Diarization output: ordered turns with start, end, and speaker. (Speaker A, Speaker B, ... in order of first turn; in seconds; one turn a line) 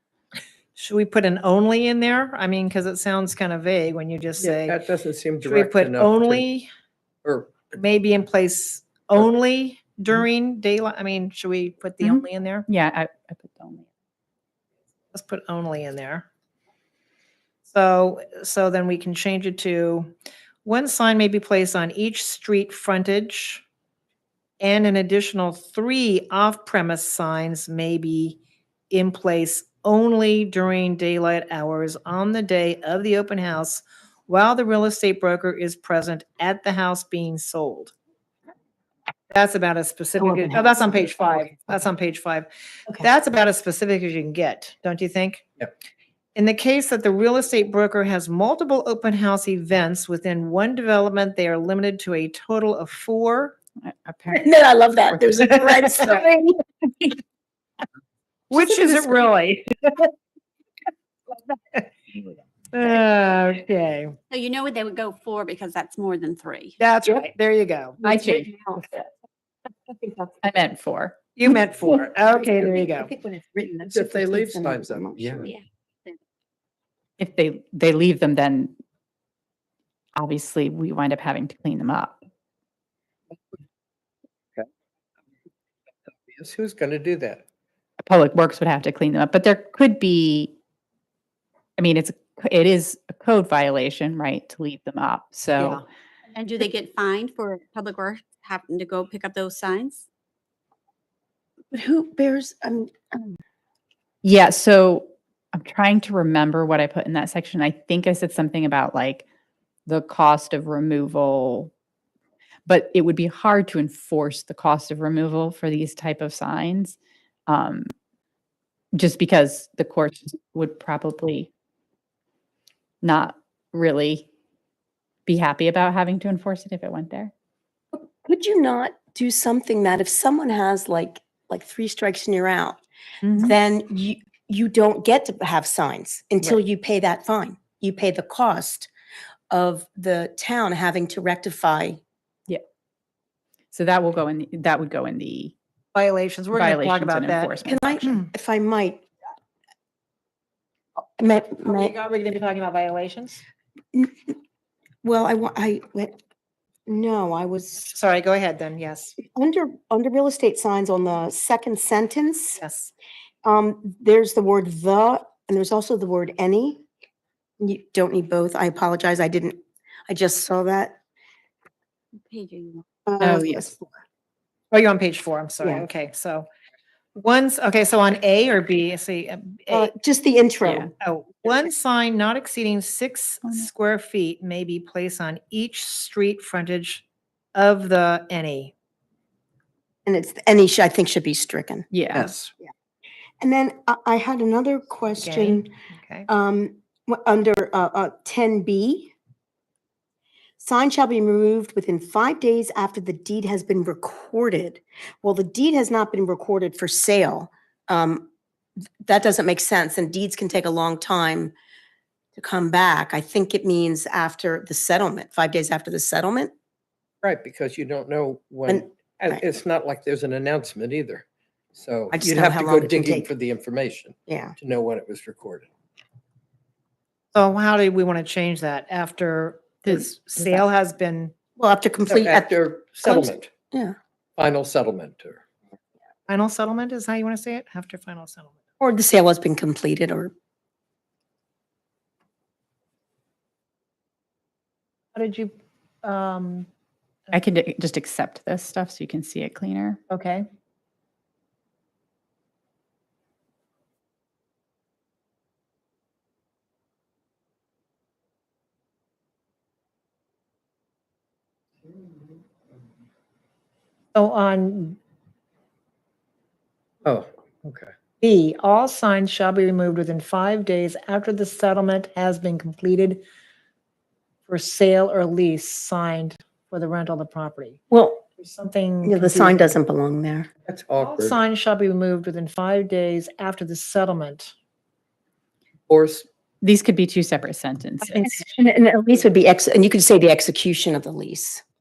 Speaker A: 0.8-4.8
Speaker B: 4.4-6.5
Speaker A: 5.4-6.7
Speaker B: 7.2-7.8
Speaker A: 7.8-12.7
Speaker C: 12.0-13.9
Speaker A: 15.1-16.2
Speaker A: 17.7-20.1
Speaker A: 20.6-23.6
Speaker A: 24.6-28.4
Speaker A: 28.9-37.9
Speaker A: 39.3-45.5
Speaker D: 40.2-41.8
Speaker A: 46.4-53.6
Speaker C: 53.8-54.5
Speaker D: 54.3-56.6
Speaker A: 58.5-60.1
Speaker D: 58.7-59.1
Speaker A: 61.5-64.2
Speaker E: 64.3-66.8
Speaker A: 66.8-68.0
Speaker D: 68.0-68.8
Speaker C: 68.0-68.5
Speaker D: 70.0-70.3
Speaker C: 70.4-71.2
Speaker A: 71.4-73.1
Speaker D: 71.8-75.5
Speaker B: 73.9-75.5
Speaker C: 77.2-78.8
Speaker C: 80.2-82.2
Speaker B: 86.2-87.4
Speaker C: 88.0-90.5
Speaker C: 91.8-95.8
Speaker A: 95.6-95.8
Speaker E: 96.3-100.1
Speaker D: 101.7-103.4
Speaker C: 104.2-109.3
Speaker C: 109.9-111.7
Speaker C: 112.7-117.9
Speaker C: 118.9-121.5
Speaker C: 123.0-124.3
Speaker C: 125.3-127.3
Speaker D: 127.9-132.8
Speaker C: 133.2-133.6
Speaker D: 133.4-138.9
Speaker D: 139.5-142.0
Speaker C: 143.7-145.5
Speaker A: 145.9-148.3
Speaker C: 146.5-148.1
Speaker D: 147.7-149.1
Speaker D: 151.2-151.9
Speaker A: 151.7-153.4
Speaker D: 153.9-154.3
Speaker D: 155.0-156.2
Speaker D: 156.9-157.9
Speaker A: 157.9-159.2
Speaker D: 159.2-162.6
Speaker A: 162.6-162.9
Speaker D: 163.4-166.8
Speaker D: 167.6-171.0
Speaker E: 172.3-172.8
Speaker D: 173.1-173.9
Speaker C: 173.2-173.7
Speaker A: 174.7-176.5
Speaker D: 175.6-175.9
Speaker A: 177.2-179.9
Speaker D: 179.7-180.9
Speaker C: 180.6-180.9
Speaker A: 181.0-187.0
Speaker C: 183.4-183.7
Speaker A: 187.6-188.7
Speaker D: 190.1-191.9
Speaker C: 191.9-192.3
Speaker B: 192.1-192.5
Speaker D: 193.4-195.7
Speaker A: 195.2-196.3
Speaker D: 196.3-199.1
Speaker D: 200.6-208.3
Speaker D: 209.0-211.5
Speaker D: 212.4-216.5
Speaker B: 217.2-225.7
Speaker D: 218.7-219.4
Speaker D: 222.1-223.3
Speaker D: 224.3-224.6
Speaker A: 227.3-231.3
Speaker C: 229.8-230.6
Speaker D: 231.6-232.5
Speaker B: 232.2-233.5
Speaker D: 233.0-233.9
Speaker B: 234.4-235.4
Speaker A: 236.3-238.6
Speaker D: 238.8-240.3
Speaker A: 245.2-246.7
Speaker C: 247.3-250.0
Speaker A: 250.1-250.4
Speaker A: 264.1-265.0
Speaker B: 267.0-267.9
Speaker A: 268.2-273.2
Speaker A: 274.5-277.8
Speaker D: 277.9-278.2
Speaker A: 278.4-279.8
Speaker D: 279.0-280.5
Speaker B: 280.7-281.4
Speaker A: 281.0-284.5
Speaker B: 285.9-286.3
Speaker C: 286.6-288.4
Speaker D: 288.0-291.6